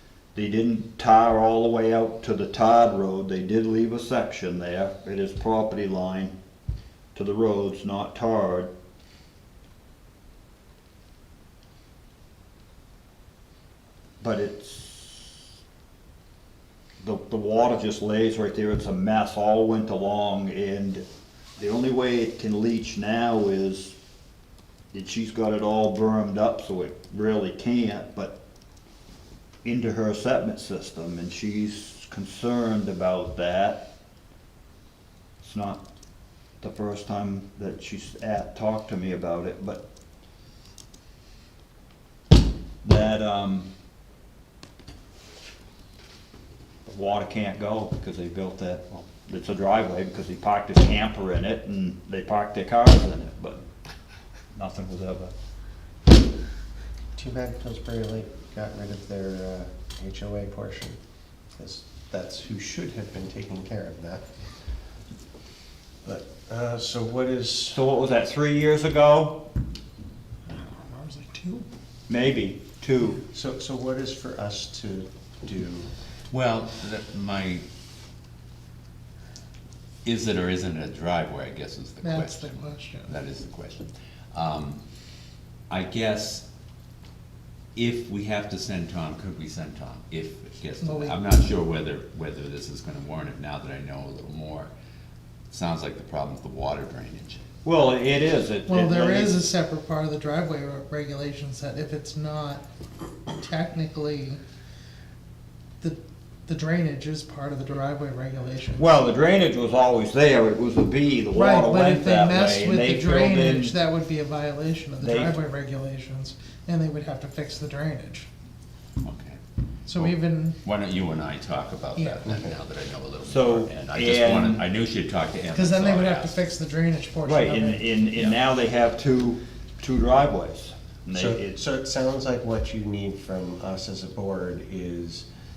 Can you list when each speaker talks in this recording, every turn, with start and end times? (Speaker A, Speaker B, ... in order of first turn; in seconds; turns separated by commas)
Speaker A: 0.3-6.3, Speaker A: 7.1-8.7, Speaker A: 14.2-15.3, Speaker A: 17.0-21.0, Speaker A: 21.6-23.9, Speaker A: 24.9-28.4, Speaker A: 29.6-33.8, Speaker A: 35.4-35.8, Speaker A: 36.6-39.8, Speaker A: 42.8-43.7, Speaker A: 46.9-53.6, Speaker A: 54.5-55.3, Speaker B: 57.1-61.0, Speaker B: 61.5-64.2, Speaker B: 66.0-67.8, Speaker A: 67.7-69.4, Speaker C: 70.5-71.7, Speaker A: 72.1-73.2, Speaker B: 73.3-75.9, Speaker D: 76.3-77.6, Speaker D: 80.0-84.8, Speaker C: 82.0-83.1, Speaker D: 85.7-86.4, Speaker D: 87.8-94.7, Speaker C: 90.8-91.2, Speaker D: 95.5-97.4, Speaker A: 97.6-99.4, Speaker C: 98.7-102.6, Speaker C: 103.3-104.4, Speaker C: 105.8-108.9, Speaker A: 108.8-113.7, Speaker C: 111.3-118.3, Speaker A: 115.0-115.3, Speaker D: 119.0-119.4, Speaker C: 119.8-120.6, Speaker D: 120.0-126.4, Speaker C: 122.0-122.3, Speaker A: 123.2-124.6, Speaker C: 125.5-127.8, Speaker A: 127.2-131.5, Speaker B: 131.1-135.3